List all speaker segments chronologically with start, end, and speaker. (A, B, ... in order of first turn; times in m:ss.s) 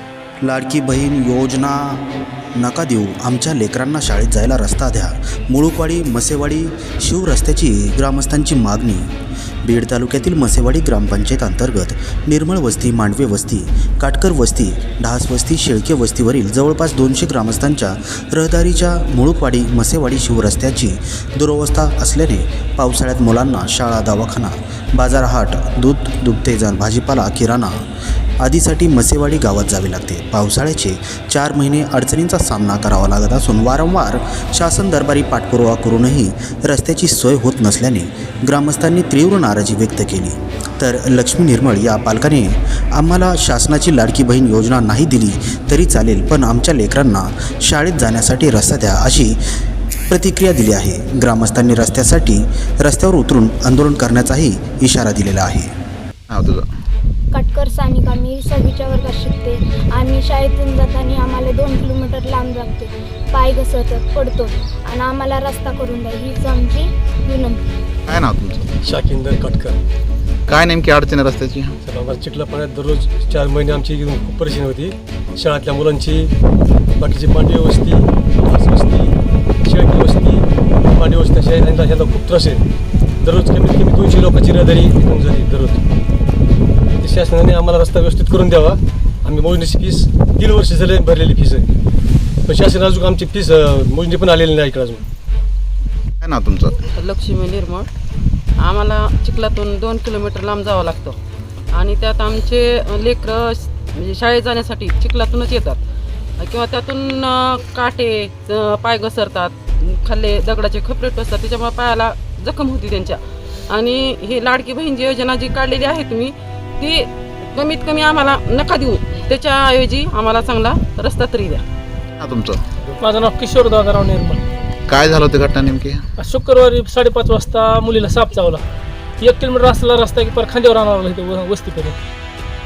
0:00.4-0:27.8 A
0:28.4-0:49.4 A
0:50.1-0:55.7 A
0:56.3-0:56.7 B
0:57.3-1:07.6 C
1:08.1-1:08.6 B
1:08.6-1:09.8 D
1:10.5-1:11.8 B
1:11.8-1:16.3 D
1:17.0-1:22.7 D
1:23.2-1:25.8 D
1:27.0-1:31.7 D
1:32.4-1:35.0 D
1:36.2-1:36.8 B
1:36.9-1:37.9 E
1:38.6-1:41.2 E
1:41.7-1:45.8 E
1:46.4-2:01.6 E
2:02.2-2:02.6 B
2:03.0-2:04.4 F
2:04.9-2:06.0 B
2:06.2-2:08.6 F
2:09.2-2:12.0 F